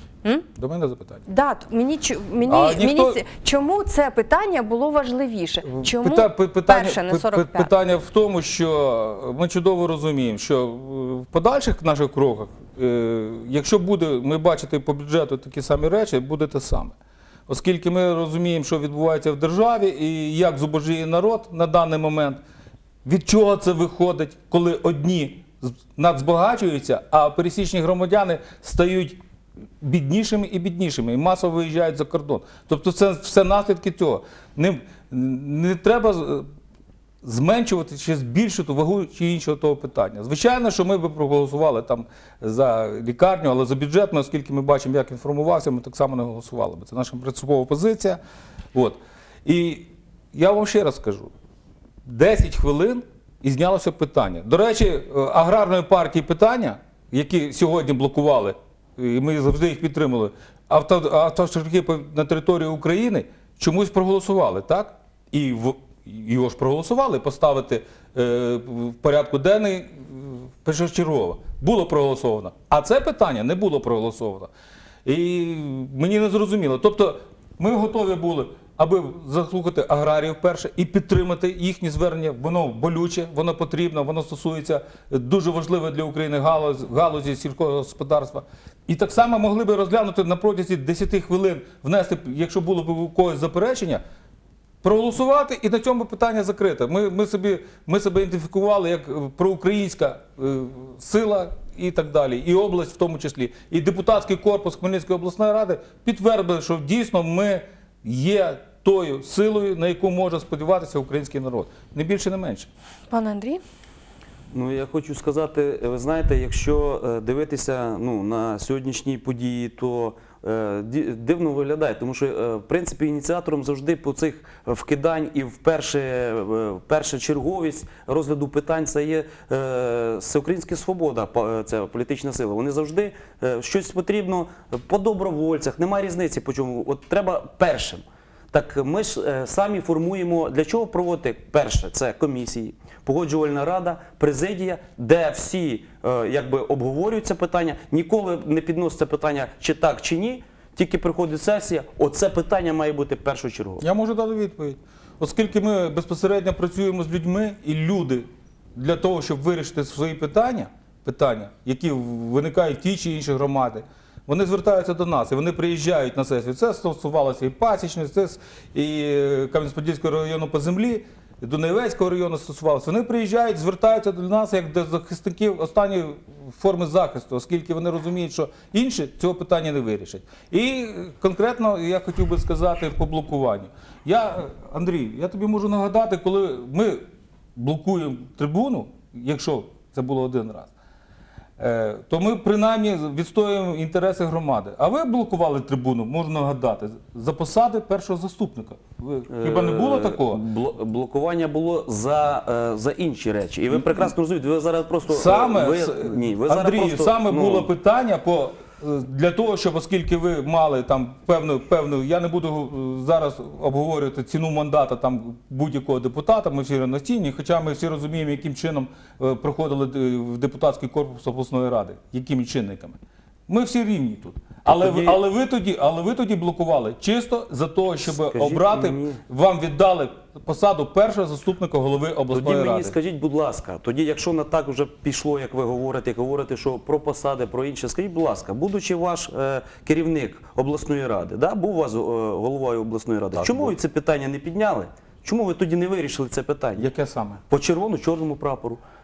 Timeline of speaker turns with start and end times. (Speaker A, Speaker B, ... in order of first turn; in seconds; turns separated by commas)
Speaker A: 0.5-1.2, Speaker B: 1.3-7.7, Speaker A: 2.5-3.2, Speaker A: 5.7-16.9, Speaker A: 17.5-22.4, Speaker A: 23.0-29.2, Speaker A: 29.8-36.5, Speaker A: 37.2-48.2, Speaker A: 48.7-51.3, Speaker A: 52.0-74.5, Speaker A: 75.0-94.0, Speaker A: 94.8-112.7, Speaker B: 113.1-113.6, Speaker C: 114.5-153.8, Speaker A: 153.8-190.7, Speaker A: 191.6-200.4, Speaker C: 199.3-207.7, Speaker A: 203.7-204.1, Speaker A: 205.1-232.9, Speaker C: 224.7-225.2, Speaker C: 228.2-229.2, Speaker C: 232.3-246.9, Speaker A: 243.3-243.8, Speaker A: 246.8-247.4, Speaker C: 247.5-248.8